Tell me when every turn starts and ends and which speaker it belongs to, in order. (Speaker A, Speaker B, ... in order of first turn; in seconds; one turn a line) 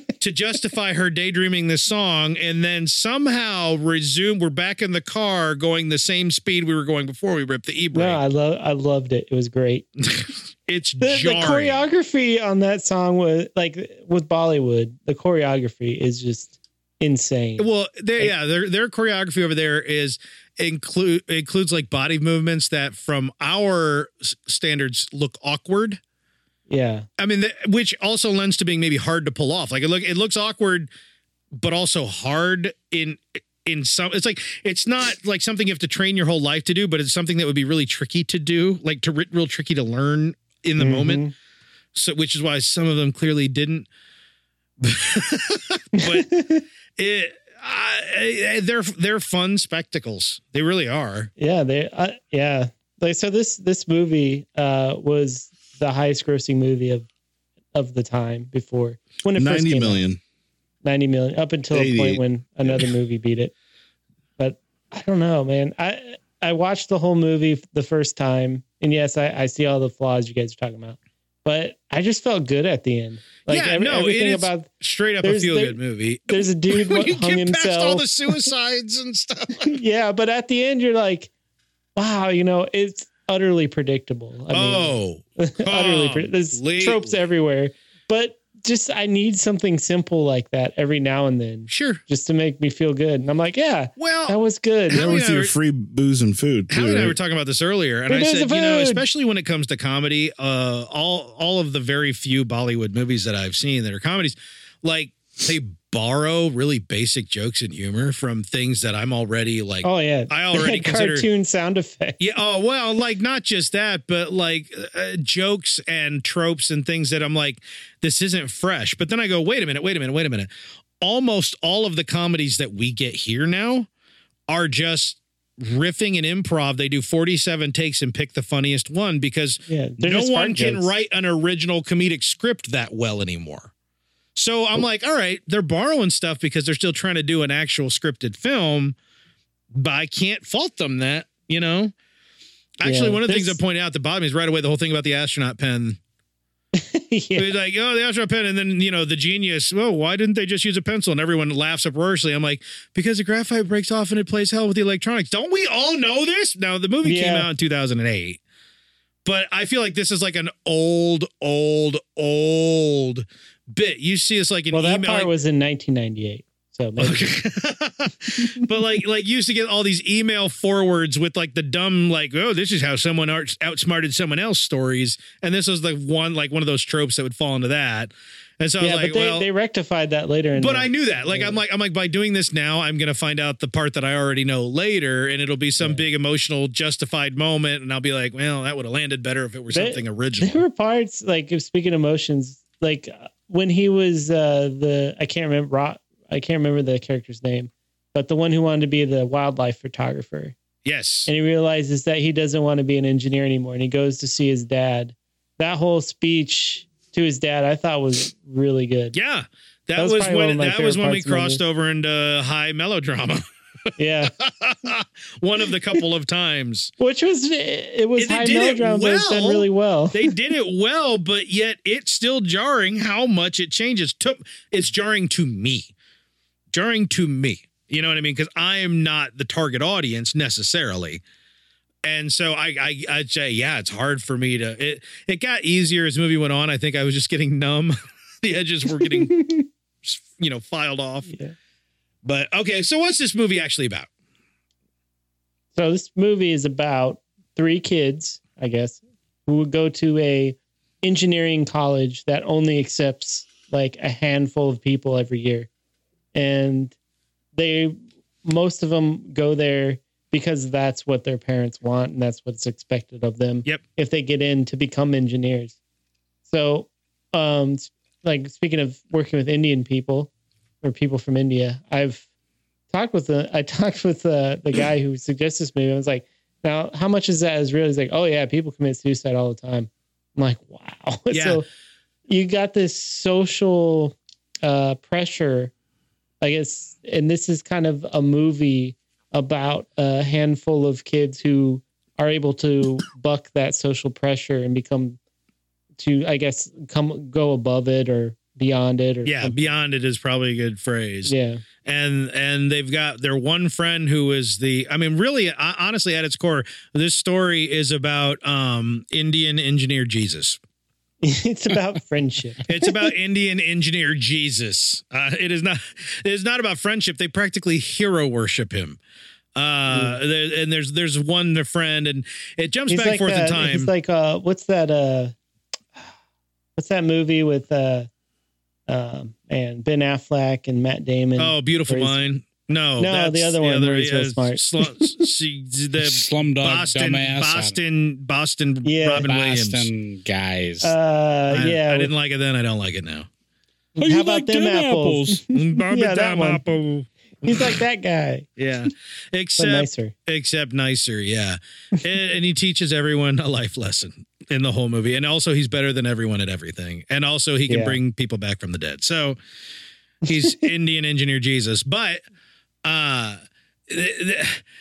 Speaker A: 0.2-8.2
Speaker B: 7.9-9.9
Speaker A: 10.0-11.8
Speaker B: 11.0-18.3
Speaker A: 17.6-26.0
Speaker B: 26.7-27.1
Speaker A: 27.2-30.9
Speaker A: 31.5-41.2
Speaker B: 40.8-41.3
Speaker A: 42.0-43.9
Speaker A: 44.8-46.4
Speaker B: 46.0-46.6
Speaker A: 47.0-51.3
Speaker B: 51.4-57.1
Speaker B: 57.7-60.0
Speaker C: 59.4-60.2
Speaker B: 60.8-63.5
Speaker C: 61.7-62.2
Speaker B: 64.4-74.7
Speaker A: 73.5-79.8
Speaker B: 75.2-75.8
Speaker B: 76.3-78.4
Speaker B: 79.6-81.3
Speaker B: 82.0-95.1
Speaker A: 84.5-87.2
Speaker A: 91.7-92.0
Speaker A: 94.0-94.4
Speaker A: 94.9-95.5
Speaker C: 94.9-97.2
Speaker A: 96.7-111.3
Speaker B: 98.1-99.0
Speaker B: 109.8-112.2
Speaker A: 112.2-120.5
Speaker A: 121.0-123.9
Speaker A: 124.5-133.7
Speaker B: 129.7-130.9
Speaker A: 134.3-139.0
Speaker A: 139.8-141.9
Speaker A: 142.8-146.0
Speaker B: 142.8-143.6
Speaker B: 146.8-147.5
Speaker A: 147.4-158.4
Speaker B: 157.0-157.5
Speaker A: 159.2-165.3
Speaker B: 164.7-167.3
Speaker A: 167.0-179.5
Speaker B: 178.8-181.6
Speaker A: 180.6-190.6
Speaker B: 189.7-200.6
Speaker A: 200.8-201.3
Speaker B: 201.3-209.2
Speaker A: 209.1-213.4
Speaker B: 210.0-211.6
Speaker B: 214.0-214.3
Speaker A: 214.4-216.9
Speaker B: 217.0-220.3
Speaker A: 218.2-225.9
Speaker A: 226.7-231.2
Speaker A: 232.1-239.4
Speaker B: 239.0-239.7
Speaker A: 240.0-241.3
Speaker B: 241.3-241.5
Speaker A: 242.2-244.1
Speaker B: 245.8-255.7
Speaker B: 256.3-257.0
Speaker B: 257.5-265.8
Speaker B: 266.5-270.3
Speaker B: 270.8-272.2
Speaker B: 272.9-281.7
Speaker A: 281.3-281.6
Speaker B: 282.3-285.7
Speaker B: 286.4-295.2
Speaker B: 296.0-299.6
Speaker A: 299.2-310.6
Speaker B: 301.3-301.6
Speaker B: 311.2-313.0
Speaker A: 312.7-319.0
Speaker A: 319.6-323.9
Speaker B: 319.9-320.2
Speaker B: 322.9-325.4
Speaker B: 326.8-328.1
Speaker B: 328.9-332.2
Speaker A: 331.4-339.9
Speaker B: 333.0-335.2
Speaker D: 336.0-337.8
Speaker B: 338.8-339.3
Speaker D: 339.2-340.9
Speaker B: 340.8-342.1
Speaker A: 341.5-343.3
Speaker B: 344.0-346.6
Speaker D: 344.0-345.4
Speaker A: 345.5-347.8
Speaker B: 347.4-348.5
Speaker A: 348.6-359.4
Speaker B: 349.6-350.1
Speaker B: 357.7-358.0
Speaker A: 360.3-362.2
Speaker A: 362.8-364.6